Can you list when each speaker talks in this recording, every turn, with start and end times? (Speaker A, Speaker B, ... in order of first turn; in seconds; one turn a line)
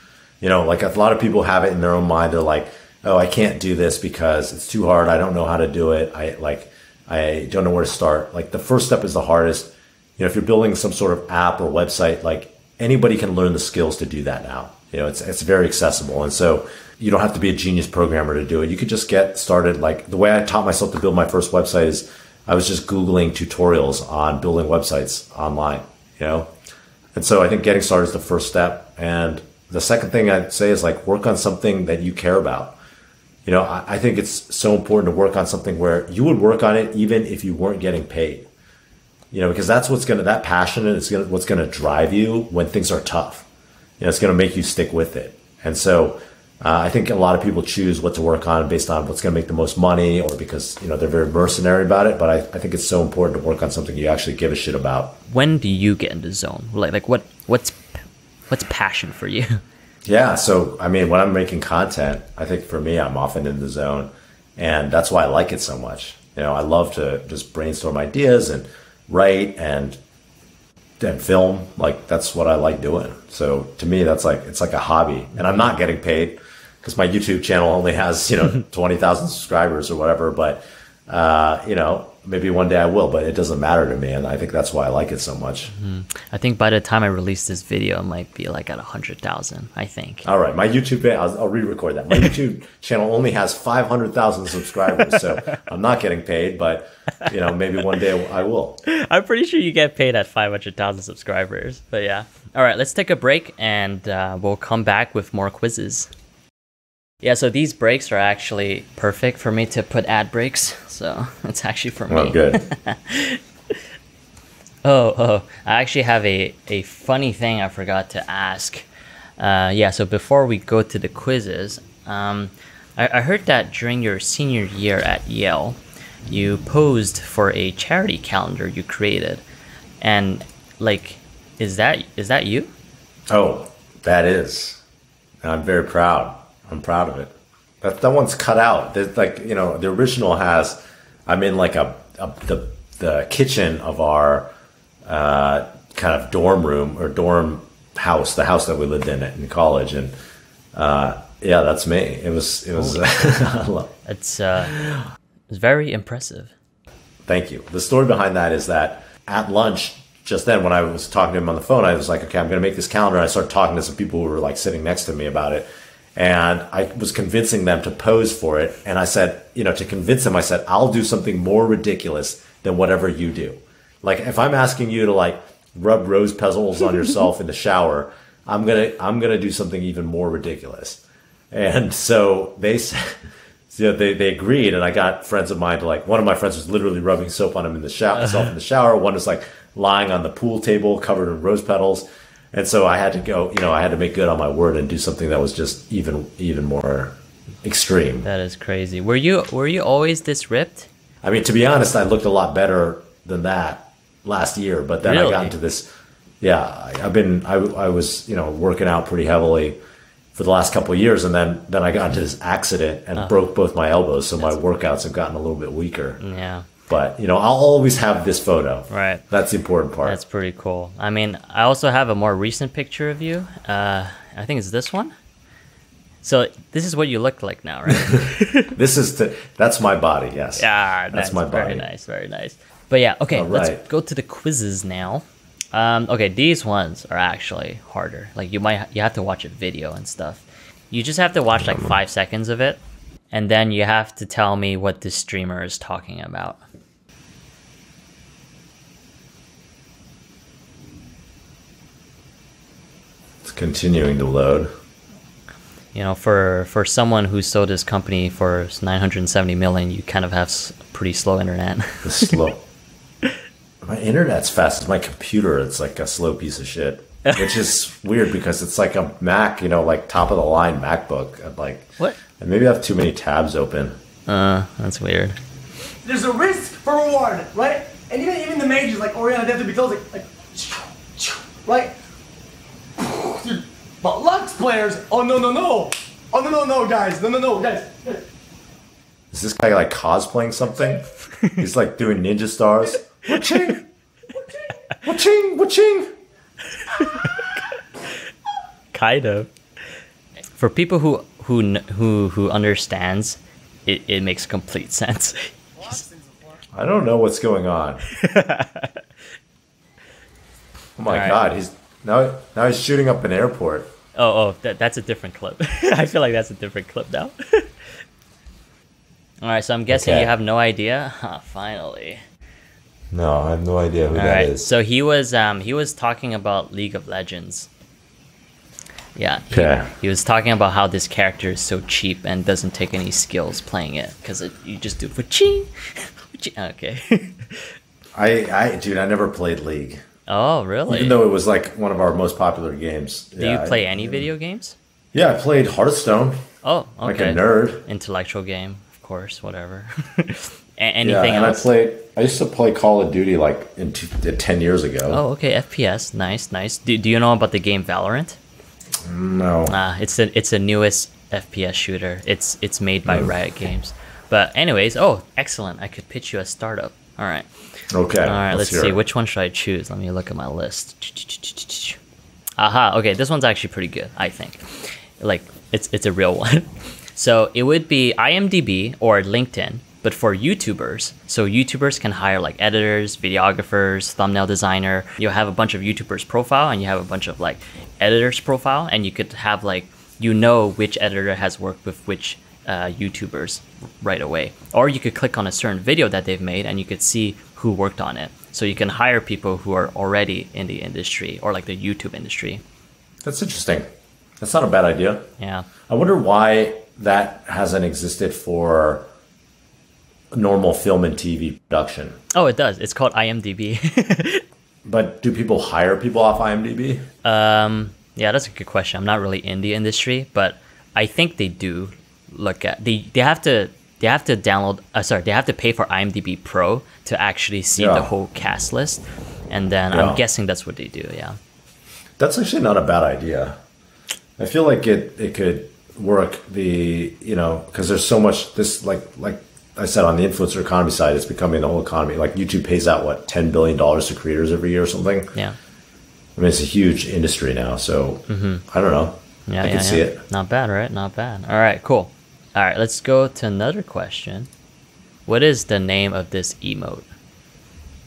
Speaker A: 0.4-26.5
Speaker A: 27.1-32.8
Speaker A: 33.5-38.5
Speaker A: 39.3-43.5
Speaker A: 44.0-55.2
Speaker B: 55.3-57.9
Speaker B: 58.5-59.6
Speaker A: 60.1-70.0
Speaker A: 71.0-85.7
Speaker B: 85.7-90.3
Speaker A: 90.2-98.8
Speaker B: 98.9-106.1
Speaker B: 107.2-113.4
Speaker A: 112.1-112.6
Speaker B: 114.8-118.8
Speaker B: 119.4-129.4
Speaker B: 130.0-132.7
Speaker A: 133.3-134.8
Speaker A: 135.4-144.5
Speaker A: 145.1-150.1
Speaker A: 150.7-153.9
Speaker B: 152.8-153.1
Speaker B: 154.1-154.8
Speaker A: 154.7-155.0
Speaker B: 155.5-156.5
Speaker A: 157.2-183.2
Speaker A: 183.7-198.3
Speaker B: 198.2-200.9
Speaker A: 201.2-205.9
Speaker B: 205.0-205.5
Speaker A: 206.4-209.8
Speaker A: 210.3-216.2
Speaker B: 216.2-216.7
Speaker A: 216.9-220.2
Speaker B: 218.9-219.2
Speaker B: 220.0-225.1
Speaker B: 226.2-228.7
Speaker A: 227.9-231.9
Speaker B: 230.6-242.8
Speaker A: 233.3-233.8
Speaker A: 241.6-241.9
Speaker B: 243.3-246.6
Speaker A: 253.4-254.7
Speaker B: 255.9-262.4
Speaker A: 262.0-262.6
Speaker A: 263.8-274.0
Speaker B: 267.2-267.6
Speaker B: 274.3-275.4
Speaker C: 276.1-281.9
Speaker C: 283.0-288.2
Speaker A: 289.3-293.8
Speaker A: 295.0-296.1
Speaker B: 296.8-297.6
Speaker B: 298.9-299.5
Speaker B: 300.6-306.0
Speaker C: 305.9-306.6
Speaker A: 306.7-308.0
Speaker B: 308.1-309.0
Speaker A: 311.0-313.9
Speaker B: 311.1-311.4
Speaker B: 314.1-317.7
Speaker B: 319.4-322.2
Speaker A: 319.9-320.3
Speaker A: 323.1-324.7
Speaker B: 324.1-327.7
Speaker B: 329.2-337.7
Speaker A: 329.5-329.9
Speaker A: 338.1-340.0
Speaker B: 340.3-341.2
Speaker A: 340.9-344.3
Speaker B: 343.4-344.8
Speaker A: 345.1-346.4
Speaker B: 346.6-351.7
Speaker A: 347.0-347.8
Speaker A: 351.0-355.2
Speaker B: 355.1-358.4
Speaker A: 359.0-359.8
Speaker B: 359.7-367.5
Speaker A: 363.1-363.3
Speaker A: 367.9-369.0
Speaker B: 368.2-372.0
Speaker B: 372.6-402.6
Speaker A: 403.2-403.9
Speaker A: 404.4-405.3
Speaker B: 405.4-405.7
Speaker A: 405.9-409.1
Speaker A: 410.3-412.2
Speaker B: 412.3-414.4
Speaker A: 414.9-417.1
Speaker B: 417.2-431.4
Speaker A: 427.8-428.1
Speaker A: 429.9-430.2
Speaker A: 432.2-433.6
Speaker A: 434.4-445.3
Speaker A: 446.4-450.2
Speaker B: 448.3-448.6
Speaker B: 449.5-454.5
Speaker B: 455.3-457.1